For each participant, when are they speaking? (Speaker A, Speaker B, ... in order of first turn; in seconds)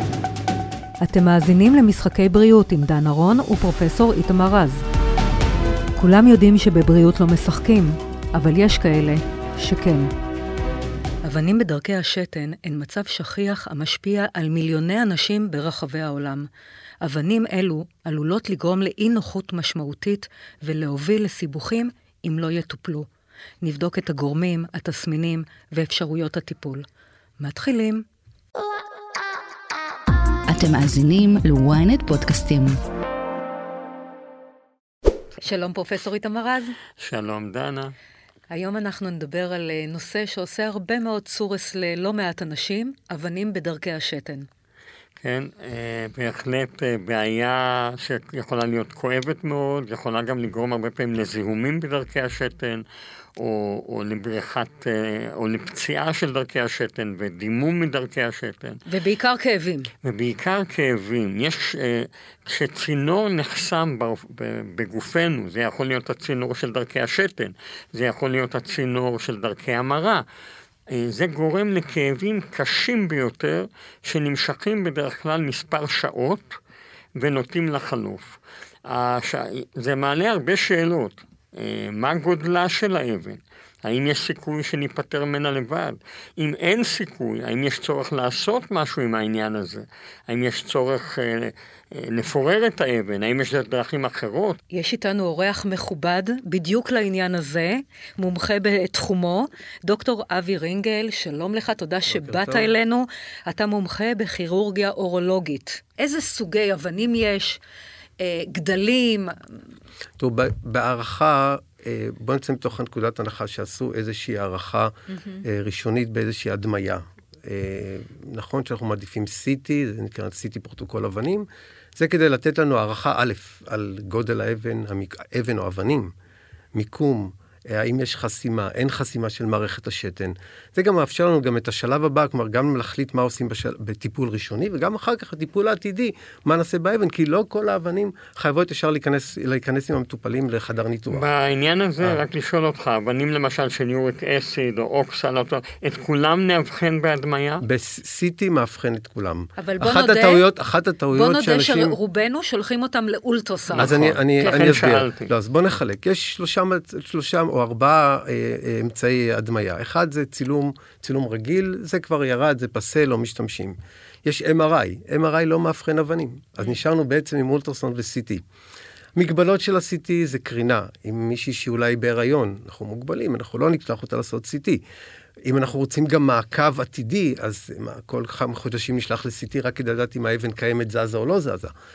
Speaker A: 1.0-4.8, 6.0-10.1, 11.2-16.5, 17.0-23.1, 23.6-26.8, 27.4-28.0, 35.4-36.8, 38.5-44.5, 58.9-59.9, 94.7-107.6, 108.2-109.3, 115.1-115.4, 149.6-150.4, 151.1-154.6
Speaker B: 30.5-32.8
Speaker C: 37.0-37.9, 45.2-52.8, 53.4-58.8, 60.0-70.2, 70.9-76.6, 77.2-78.3, 78.9-94.6, 141.1-147.6, 153.7-155.3
Speaker D: 102.1-102.7, 110.2-114.9, 115.4-126.1, 126.7-141.3, 147.6-152.0, 153.8-168.4, 169.2-174.8, 175.5-181.7